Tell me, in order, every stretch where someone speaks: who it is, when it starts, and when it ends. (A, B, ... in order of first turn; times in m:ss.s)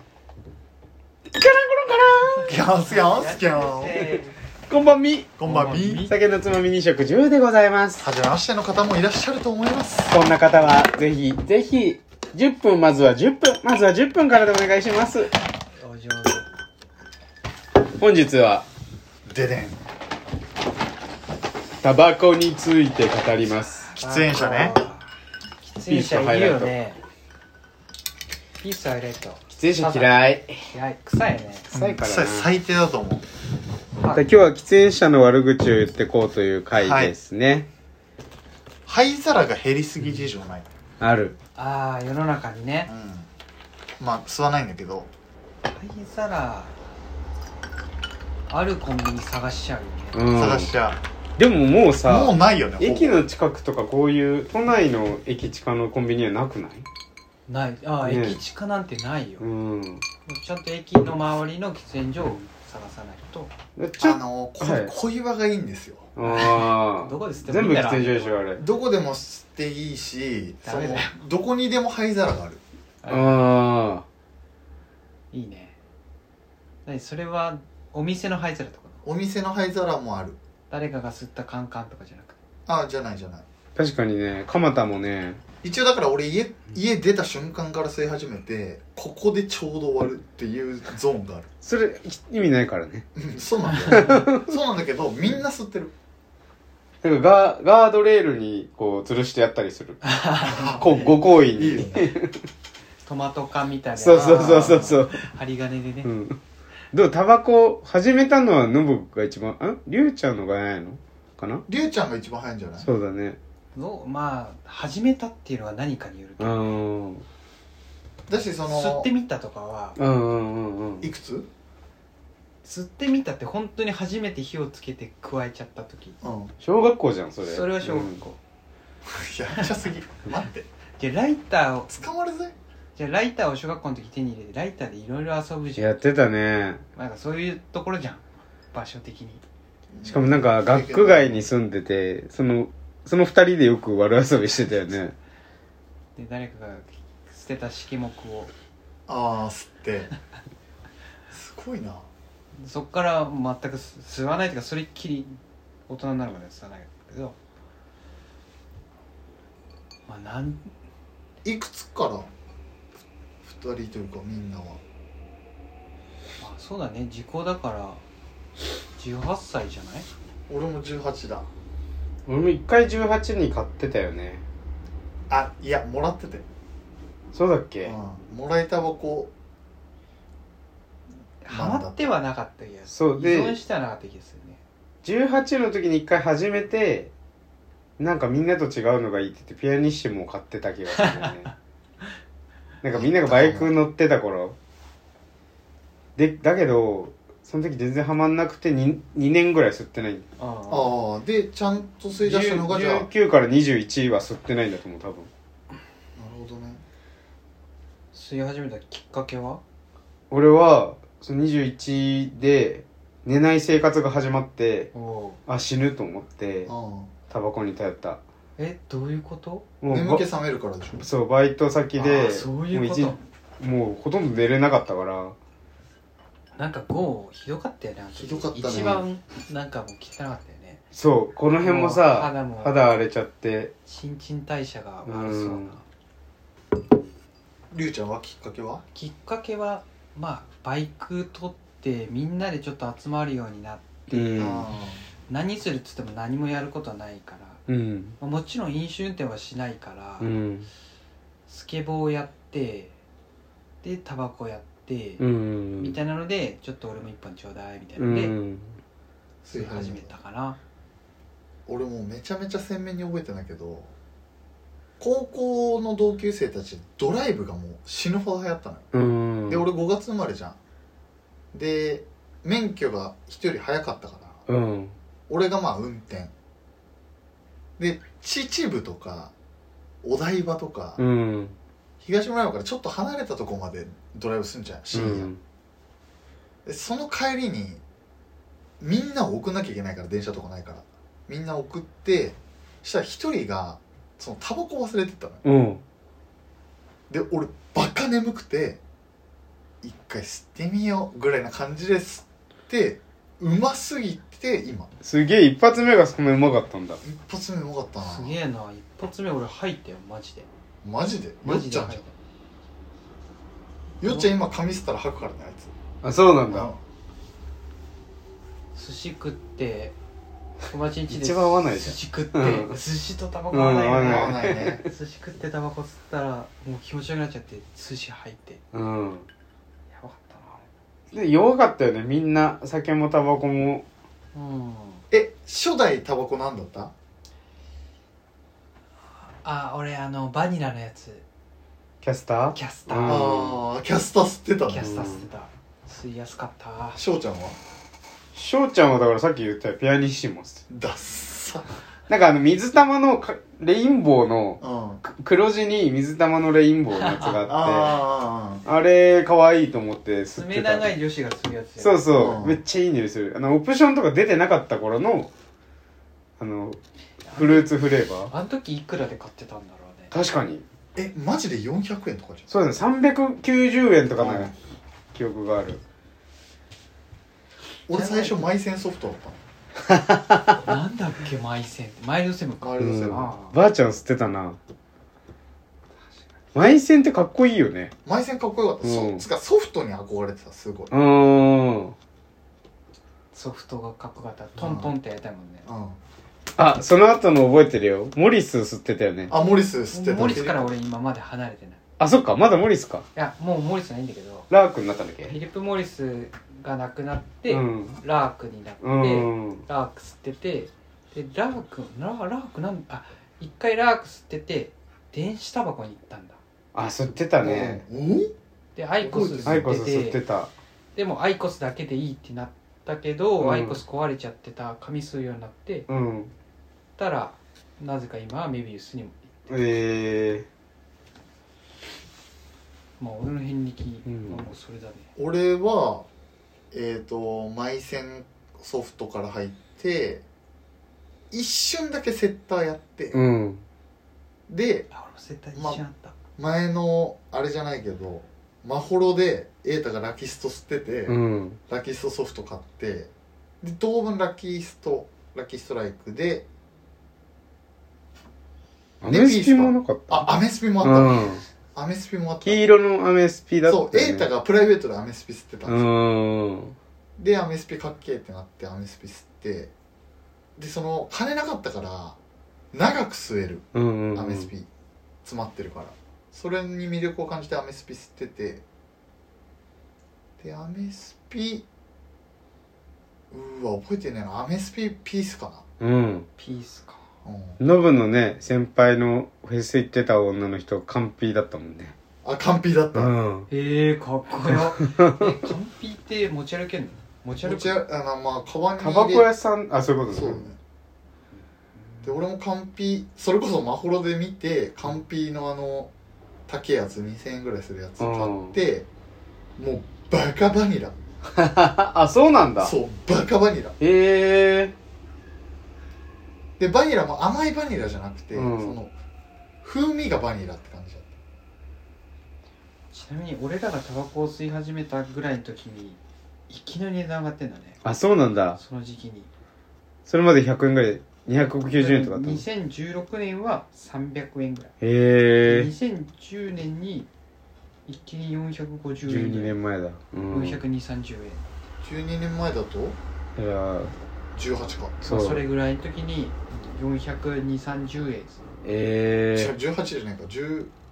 0:01.3-0:02.5 A
0:02.4-0:04.4 B
0:02.5-0:04.0 C
0:04.0-0:05.4 A
0:05.4-0:06.1 C
0:05.4-0:06.1 B
0:06.0-0:08.1 A
0:08.0-0:10.2 C
0:10.1-0:15.3 A
0:15.8-0:16.5 B
0:18.0-0:18.6 A
0:19.3-0:19.8 C
0:21.8-0:23.9 A
0:23.5-0:25.1 B
0:24.0-0:24.8 C
0:25.6-0:27.0 B
0:25.9-0:26.7 A
0:28.6-0:31.7 B
0:29.5-0:30.6 A
0:31.7-0:32.5 A
0:31.7-0:33.2 C
0:34.0-0:34.2 B
0:34.1-0:37.7 A
0:36.7-0:37.1 C
0:38.9-0:40.7 C
0:41.0-0:41.4 A
0:41.6-0:42.9 B
0:42.9-0:43.3 C
0:44.0-0:45.1 C
0:45.6-0:46.7 B
0:48.5-0:50.2 B
0:50.1-0:50.7 A
0:50.3-0:51.0 C
0:51.4-0:56.9 A
0:52.0-0:53.2 C
0:57.5-0:59.4 B
0:58.0-0:58.4 A
0:59.4-1:00.0 A
1:00.2-1:03.5 B
1:03.8-1:04.9 A
1:04.0-1:06.1 C
1:06.2-1:08.6 A
1:06.2-1:08.5 B
1:08.6-1:12.6 C
1:10.6-1:11.2 B
1:13.0-1:13.5 B
1:13.1-1:14.0 A
1:15.3-1:15.7 B
1:16.8-1:19.0 B
1:19.0-1:20.4 C
1:20.7-1:22.4 B
1:22.7-1:23.4 C
1:23.8-1:25.4 A
1:25.6-1:31.5 C
1:31.6-1:33.1 A
1:33.1-1:35.9 C
1:33.7-1:34.2 B
1:33.9-1:34.6 A
1:37.0-1:40.0 A
1:40.0-1:41.1 B
1:40.4-1:40.9 C
1:40.7-1:42.4 A
1:41.5-1:42.2 C
1:43.0-1:46.1 B
1:44.0-1:45.2 A
1:44.1-1:45.0 C
1:46.0-1:46.4 A
1:46.9-1:51.6 A
1:51.7-1:52.9 C
1:52.8-1:53.4 A
1:53.7-1:56.7 B
1:56.4-1:57.2 A
1:58.3-1:59.1 C
1:58.7-2:00.0 B
2:00.0-2:01.1 A
2:01.0-2:01.5 C
2:02.6-2:06.2 B
2:06.2-2:06.5 C
2:06.6-2:08.2 A
2:07.4-2:08.4 B
2:09.1-2:10.7 C
2:11.0-2:11.9 B
2:11.9-2:12.5 C
2:13.0-2:16.0 B
2:15.8-2:16.8 A
2:17.0-2:19.4 B
2:19.9-2:21.5 C
2:20.0-2:25.2 A
2:26.2-2:28.5 B
2:29.1-2:30.1 C
2:31.3-2:32.1 C
2:32.6-2:37.4 B
2:40.1-2:40.7 B
2:41.4-2:42.3 C
2:43.4-2:44.8 C
2:46.4-2:48.0 B
2:49.0-2:50.1 B
2:50.5-2:51.5 C
2:52.3-2:54.4 A
2:55.3-2:56.4 C
2:57.3-2:57.9 A
2:57.8-2:59.3 C
3:01.4-3:04.6 B
3:01.5-3:02.1 C
3:02.9-3:03.6 A
3:05.0-3:07.1 A
3:08.0-3:11.5 A
3:10.9-3:11.5 B
3:12.8-3:14.6 A
3:12.9-3:13.7 C
3:16.2-3:20.2 A
3:20.4-3:20.9 B
3:20.7-3:23.1 C
3:22.2-3:25.3 A
3:26.2-3:26.8 C
3:28.1-3:29.6 B
3:30.3-3:34.9 A
3:34.9-3:35.4 B
3:35.5-3:36.7 A
3:36.7-3:37.1 C
3:37.3-3:38.2 A
3:38.6-3:39.7 B
3:39.8-3:40.2 A
3:39.9-3:41.1 C
3:41.0-3:45.3 A
3:42.0-3:43.2 B
3:46.6-3:50.8 B
3:48.2-3:49.0 C
3:48.6-3:49.0 A
3:50.9-3:53.7 A
3:51.6-3:52.8 B
3:53.9-3:55.8 B
3:55.0-3:55.7 A
3:57.7-3:58.8 C
3:58.9-4:04.7 B
4:04.1-4:04.7 A
4:04.4-4:05.0 C
4:05.3-4:07.6 B
4:07.7-4:08.2 A
4:08.2-4:10.3 B
4:10.2-4:10.7 A
4:11.5-4:12.9 B
4:13.8-4:15.2 B
4:15.2-4:16.0 A
4:15.8-4:18.3 B
4:18.0-4:18.8 A
4:19.4-4:20.1 C
4:19.5-4:20.6 B
4:21.7-4:23.9 C
4:25.0-4:28.9 C
4:28.9-4:29.6 A
4:29.5-4:30.6 C
4:31.5-4:34.4 C
4:34.5-4:34.9 A
4:35.3-4:36.3 C
4:37.8-4:39.3 C
4:40.0-4:41.0 C
4:41.0-4:41.6 A
4:42.0-4:45.3 C
4:44.9-4:45.4 A
4:46.6-4:47.8 C
4:48.8-4:55.4 C
4:55.4-4:55.8 A
4:57.1-4:58.8 C
4:59.8-5:04.9 C
5:05.0-5:07.0 A
5:07.0-5:08.4 C
5:08.0-5:10.5 B
5:10.8-5:12.0 C
5:11.4-5:12.1 B
5:14.0-5:14.3 B
5:14.0-5:15.7 C
5:16.0-5:16.7 A
5:16.5-5:16.8 C
5:18.8-5:19.9 B
5:20.7-5:28.6 B
5:21.1-5:22.8 A
5:23.5-5:24.8 A
5:24.0-5:24.8 C
5:28.7-5:29.3 A
5:29.9-5:30.6 B
5:31.1-5:33.8 A
5:34.3-5:35.0 B
5:35.1-5:36.9 C
5:39.4-5:41.2 B
5:42.0-5:43.6 A
5:42.5-5:43.5 B
5:43.0-5:44.9 C
5:44.7-5:47.0 B
5:44.8-5:45.3 A
5:46.9-5:47.6 C
5:48.3-5:50.6 A
5:50.7-5:51.7 C
5:52.1-5:58.0 A
5:54.6-5:55.0 C
5:57.0-5:57.4 B
5:57.5-5:58.6 C
5:58.6-6:00.9 A
6:00.3-6:02.1 B
6:01.8-6:05.3 A
6:02.2-6:02.6 C
6:06.4-6:06.8 A
6:07.2-6:07.7 B
6:07.3-6:08.3 A
6:08.3-6:10.1 B
6:10.1-6:10.6 A
6:11.0-6:12.5 C
6:12.5-6:14.5 A
6:14.2-6:14.5 C
6:15.1-6:15.8 A
6:17.9-6:19.4 C
6:17.9-6:18.5 B
6:19.9-6:20.7 A
6:20.6-6:23.6 B
6:22.6-6:23.3 C
6:22.8-6:24.6 A
6:26.6-6:27.9 A
6:28.0-6:30.9 C
6:28.8-6:29.2 A
6:30.9-6:31.9 A
6:33.3-6:35.7 B
6:34.6-6:34.9 C
6:35.7-6:36.0 C
6:36.6-6:39.3 A
6:39.3-6:40.7 C
6:39.4-6:41.8 B
6:42.0-6:43.1 A
6:43.2-6:44.5 B
6:44.5-6:45.4 A
6:45.3-6:56.4 B
6:47.5-6:48.0 A
6:48.8-6:49.6 A
6:56.7-6:57.8 A
6:57.4-6:58.3 C
6:58.8-7:00.2 B
6:59.0-6:59.6 C
6:59.4-7:00.5 A
7:00.9-7:05.9 B
7:03.4-7:03.8 A
7:05.9-7:06.3 A
7:07.0-7:09.5 B
7:09.5-7:10.5 A
7:13.0-7:15.1 B
7:14.1-7:14.4 A
7:15.2-7:16.1 C
7:16.7-7:20.2 C
7:21.3-7:23.2 C
7:23.1-7:23.6 A
7:24.5-7:24.9 C
7:24.9-7:26.1 B
7:25.5-7:25.8 C
7:26.4-7:31.2 C
7:31.1-7:31.6 A
7:31.7-7:36.4 C
7:39.0-7:40.3 A
7:39.1-7:42.6 C
7:40.8-7:41.4 A
7:42.4-7:44.3 A
7:43.7-7:45.9 C
7:45.7-7:46.8 A
7:47.2-7:49.7 C
7:50.6-7:52.2 C
7:52.7-7:54.7 C
7:53.7-7:54.5 A
7:55.2-7:58.6 C
8:00.4-8:01.6 C
8:03.3-8:05.6 C
8:05.8-8:06.3 A
8:06.4-8:07.0 B
8:07.2-8:07.6 C
8:07.6-8:11.9 A
8:12.2-8:13.1 C
8:12.9-8:13.5 A
8:13.5-8:17.8 B
8:14.4-8:15.4 A
8:17.4-8:19.3 C
8:18.8-8:20.4 A
8:20.1-8:20.6 C
8:22.0-8:25.9 C
8:26.5-8:28.9 C
8:28.0-8:28.6 A
8:29.6-8:31.0 C
8:31.2-8:32.8 A
8:32.6-8:33.8 C
8:33.8-8:34.8 A
8:36.6-8:38.9 C
8:38.3-8:38.8 A
8:39.6-8:41.1 C
8:42.9-8:47.8 B
8:47.8-8:48.6 A
8:48.6-8:49.3 B
8:50.1-8:52.4 A
8:51.7-8:54.7 B
8:54.8-8:55.7 A
8:55.4-8:57.1 B
8:57.9-8:59.5 B
8:59.0-9:00.6 A
9:00.3-9:01.5 B
9:01.8-9:03.0 C
9:03.4-9:03.9 A
9:04.3-9:05.0 C
9:05.0-9:08.4 B
9:05.0-9:05.4 A
9:08.6-9:09.5 A
9:09.3-9:10.7 C